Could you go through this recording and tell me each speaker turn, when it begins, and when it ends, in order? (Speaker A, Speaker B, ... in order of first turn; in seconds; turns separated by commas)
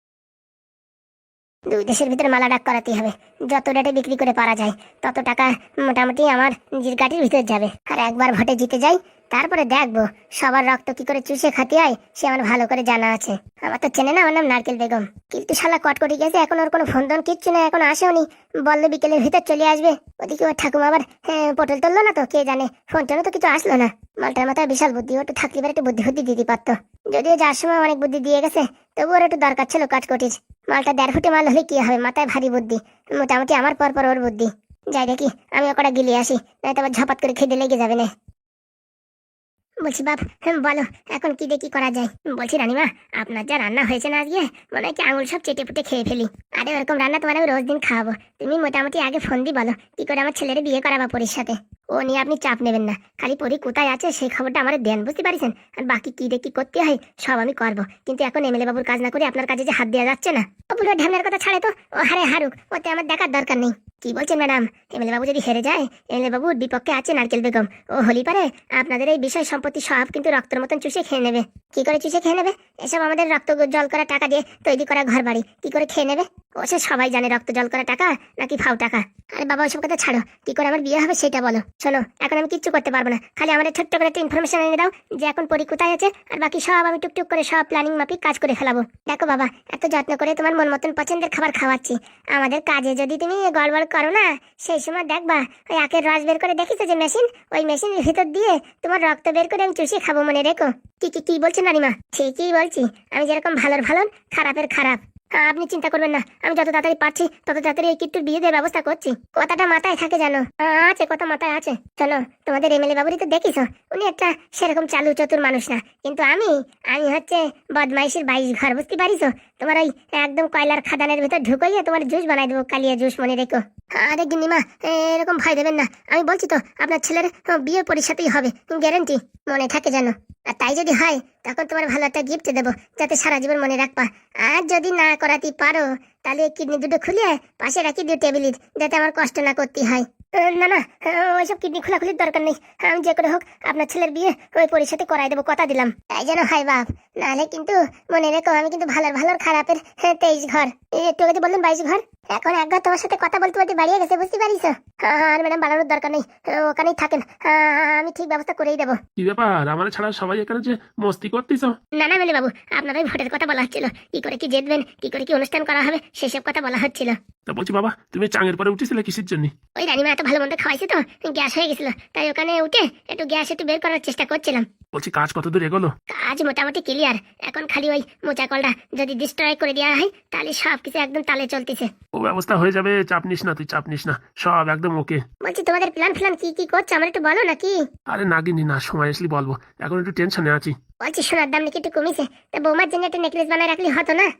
Speaker A: 1.7-38.1, Speaker A: 39.8-159.0, Speaker B: 159.2-161.8, Speaker A: 162.0-167.2, Speaker B: 167.5-169.5, Speaker A: 169.8-174.7, Speaker B: 174.9-175.9, Speaker A: 176.1-181.9, Speaker B: 182.2-185.2, Speaker A: 185.4-187.8, Speaker B: 188.1-190.8, Speaker A: 191.0-194.3